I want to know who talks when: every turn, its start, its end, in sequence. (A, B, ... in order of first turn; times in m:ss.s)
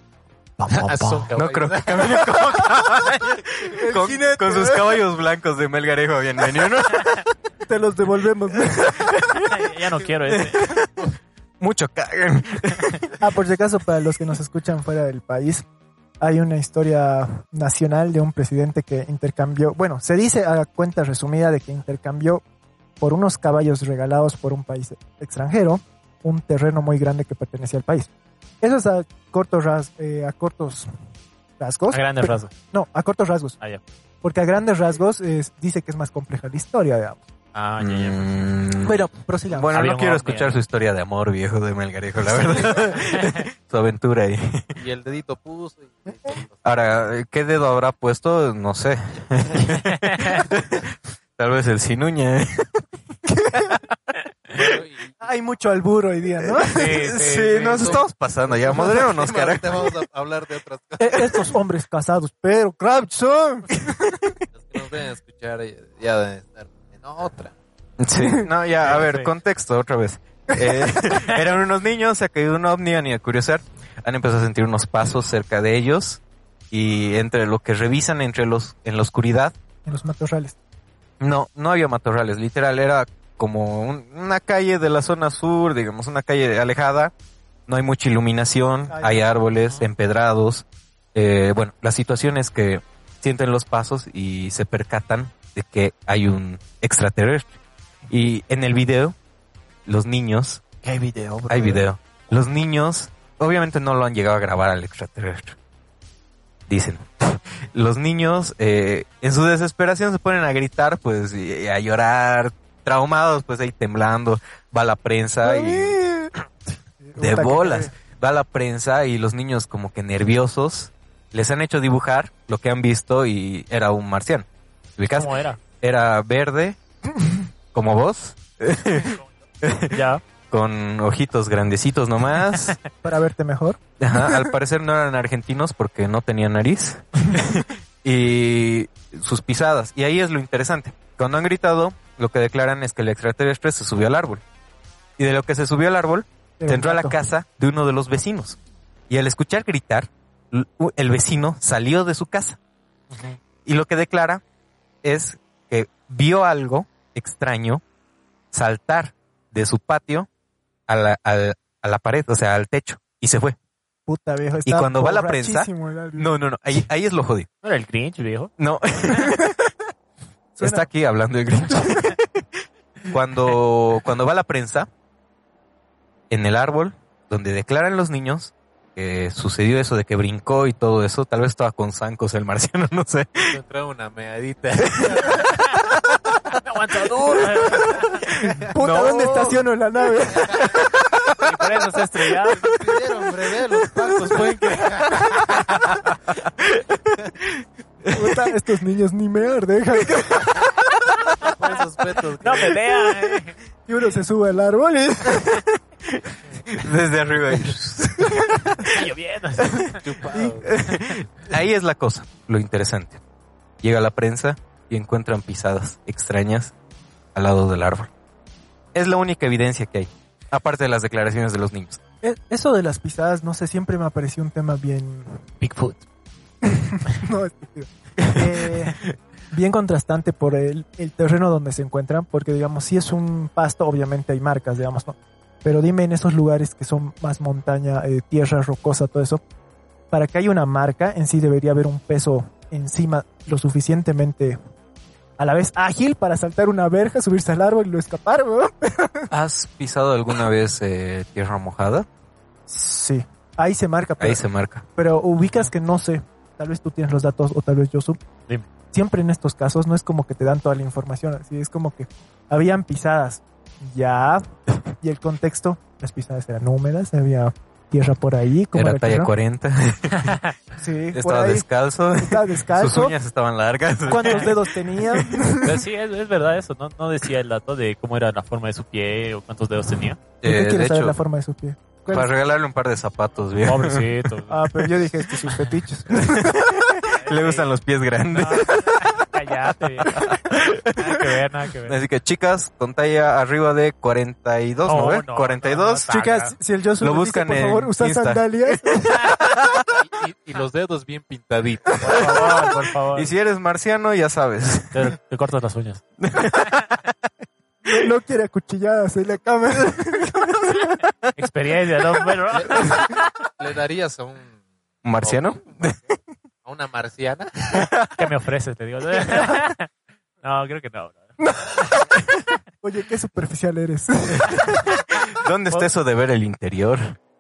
0:00.6-0:01.3 A
0:00.7-0:02.6 B
0:01.3-0:07.3 C
0:03.7-0:05.0 D
0:07.7-0:09.2 D
0:08.6-0:09.7 C
0:09.4-0:10.6 A
0:10.3-0:11.0 C
0:11.6-0:13.1 C
0:13.2-0:15.6 D
0:16.2-0:22.4 D
0:23.0-0:28.1 D
0:28.6-0:30.9 D
0:31.6-0:33.6 D
0:31.9-0:32.5 A
0:34.2-0:37.3 D
0:37.5-0:38.5 A
0:37.8-0:44.7 C
0:38.8-0:39.8 D
0:39.7-0:40.6 A
0:42.4-0:43.0 B
0:44.8-0:47.0 B
0:46.6-0:52.8 C
0:50.1-0:50.4 A
0:54.5-0:55.2 B
0:55.2-0:57.0 D
0:56.4-0:59.9 C
0:56.7-0:58.0 A
0:57.7-1:01.6 B
1:01.0-1:04.4 D
1:04.6-1:07.6 B
1:08.0-1:19.6 C
1:08.8-1:09.3 A
1:19.9-1:20.6 D
1:21.2-1:27.1 C
1:27.7-1:39.2 C
1:28.9-1:29.4 D
1:39.9-1:40.6 C
1:40.8-1:41.8 D
1:41.5-1:45.6 C
1:46.7-1:56.0 C
1:55.4-1:56.4 D
1:57.0-1:57.9 D
1:57.2-2:06.8 C
2:05.1-2:05.6 A
2:07.7-2:12.8 C
2:09.9-2:10.2 A
2:13.0-2:14.5 D
2:14.0-2:24.4 C
2:25.2-2:28.6 C
2:26.6-2:27.2 D
2:29.1-2:32.6 C
2:33.1-2:33.4 A
2:33.6-2:34.4 C
2:35.0-2:37.8 C
2:38.5-2:40.3 C
2:40.9-2:43.6 C
2:44.1-2:46.3 D
2:44.6-2:47.5 C
2:47.6-2:48.5 A
2:48.6-2:49.6 C
2:49.2-2:49.5 D
2:50.6-2:50.9 D
2:50.6-2:54.9 C
2:56.3-3:03.6 C
3:03.4-3:05.5 B
3:04.8-3:05.8 C
3:06.6-3:08.2 A
3:08.5-3:09.6 C
3:08.7-3:10.8 D
3:10.3-3:10.7 B
3:10.6-3:11.0 C
3:11.4-3:12.7 A
3:12.6-3:15.9 B
3:16.6-3:18.5 C
3:18.1-3:20.8 D
3:21.3-3:22.8 B
3:22.4-3:23.6 A
3:23.9-3:25.6 D
3:25.3-3:29.0 C
3:28.8-3:30.0 A
3:30.0-3:30.7 B
3:30.3-3:31.0 D
3:30.6-3:33.2 C
3:33.8-3:36.7 C
3:37.4-3:38.1 C
3:38.9-3:42.0 C
3:42.2-3:45.4 D
3:45.6-3:46.0 A
3:46.6-3:59.4 D
3:48.2-3:49.1 C
4:00.1-4:04.6 D
4:05.4-4:09.3 D
4:09.3-4:12.1 C
4:12.7-4:14.4 D
4:14.2-4:14.9 C
4:15.0-4:18.2 D
4:18.9-4:24.5 D
4:25.0-4:29.3 D
4:28.7-4:30.4 C
4:30.2-4:30.5 A
4:30.8-4:31.7 D
4:31.1-4:35.5 C
4:32.2-4:33.2 D
4:34.1-4:35.8 D
4:35.6-4:40.2 A
4:40.4-4:41.2 C
4:40.4-4:42.3 D
4:42.1-4:44.3 C
4:43.6-4:44.7 A
4:44.5-4:46.5 D
4:46.1-4:49.3 C
4:47.1-4:47.7 A
4:48.3-4:52.0 A
4:50.0-4:56.1 C
4:54.8-4:56.6 A
4:56.1-4:59.3 D
4:57.0-5:00.0 C
5:00.0-5:02.2 B
5:02.0-5:03.3 A
5:03.1-5:05.1 C
5:04.9-5:06.0 A
5:06.2-5:07.1 C
5:07.9-5:10.8 D
5:11.4-5:13.2 A
5:12.6-5:14.6 B
5:15.0-5:16.1 C
5:15.2-5:16.0 B
5:16.6-5:18.0 B
5:17.7-5:18.1 C
5:18.2-5:19.9 A
5:20.4-5:21.4 A
5:21.4-5:22.2 D
5:22.8-5:25.0 D
5:24.4-5:27.2 C